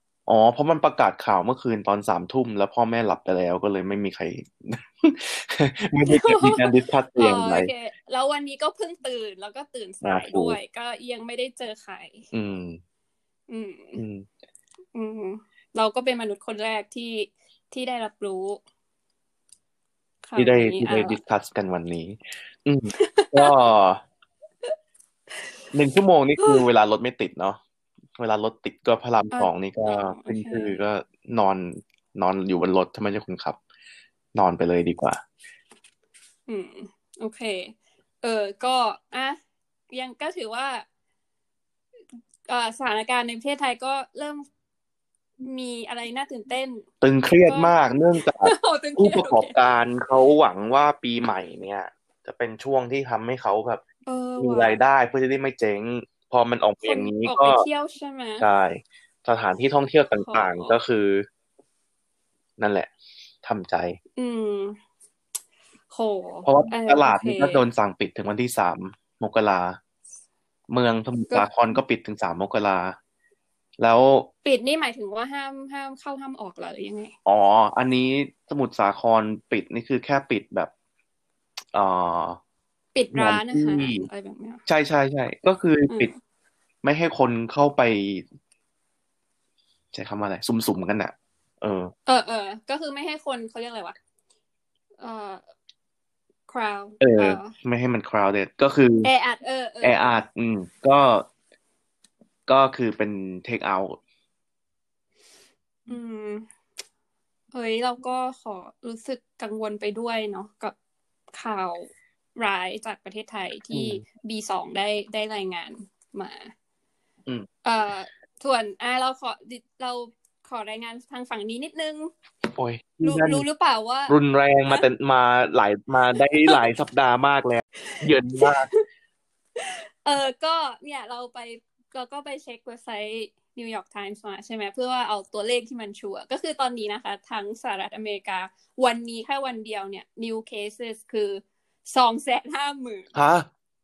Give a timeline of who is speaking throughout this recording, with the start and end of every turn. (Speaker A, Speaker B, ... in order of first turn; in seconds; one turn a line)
Speaker A: 0.3-7.7
Speaker B: 6.0-12.3
Speaker A: 10.0-10.6
Speaker A: 12.3-12.8
Speaker B: 13.5-14.0
Speaker A: 14.0-14.2
Speaker B: 14.9-18.6
Speaker B: 20.2-21.2
Speaker A: 20.4-24.0
Speaker B: 22.9-23.5
Speaker A: 25.7-27.6
Speaker B: 26.4-26.7
Speaker A: 28.1-33.6
Speaker B: 29.3-30.8
Speaker A: 34.3-35.2
Speaker B: 36.5-39.4
Speaker B: 39.9-40.8
Speaker B: 42.5-44.5
Speaker B: 45.4-46.8
Speaker A: 47.0-53.8
Speaker B: 47.5-49.6
Speaker B: 54.1-54.8
Speaker A: 54.4-57.6
Speaker B: 56.8-58.4
Speaker A: 58.4-61.3
Speaker B: 60.1-60.8
Speaker A: 62.6-62.9
Speaker A: 63.4-64.0
Speaker B: 64.2-64.8
Speaker B: 65.9-67.6
Speaker A: 66.4-69.8
Speaker A: 70.7-73.0
Speaker A: 73.8-74.3
Speaker B: 74.4-77.1
Speaker A: 77.2-80.7
Speaker A: 81.7-82.4
Speaker B: 82.9-84.6
Speaker A: 83.1-84.1
Speaker A: 84.7-86.1
Speaker B: 85.9-86.1
Speaker A: 86.8-88.2
Speaker A: 89.9-91.9
Speaker B: 92.1-93.9
Speaker B: 95.0-95.4
Speaker B: 96.5-97.5
Speaker A: 97.0-99.1
Speaker B: 99.0-100.1
Speaker A: 99.8-101.3
Speaker A: 102.5-104.0
Speaker B: 105.9-106.5
Speaker B: 107.5-110.7
Speaker B: 111.3-116.5
Speaker A: 113.7-114.0
Speaker B: 117.6-122.1
Speaker A: 122.5-123.5
Speaker B: 123.0-124.2
Speaker A: 124.1-128.7
Speaker B: 127.8-128.8
Speaker B: 129.6-143.1
Speaker A: 143.1-143.5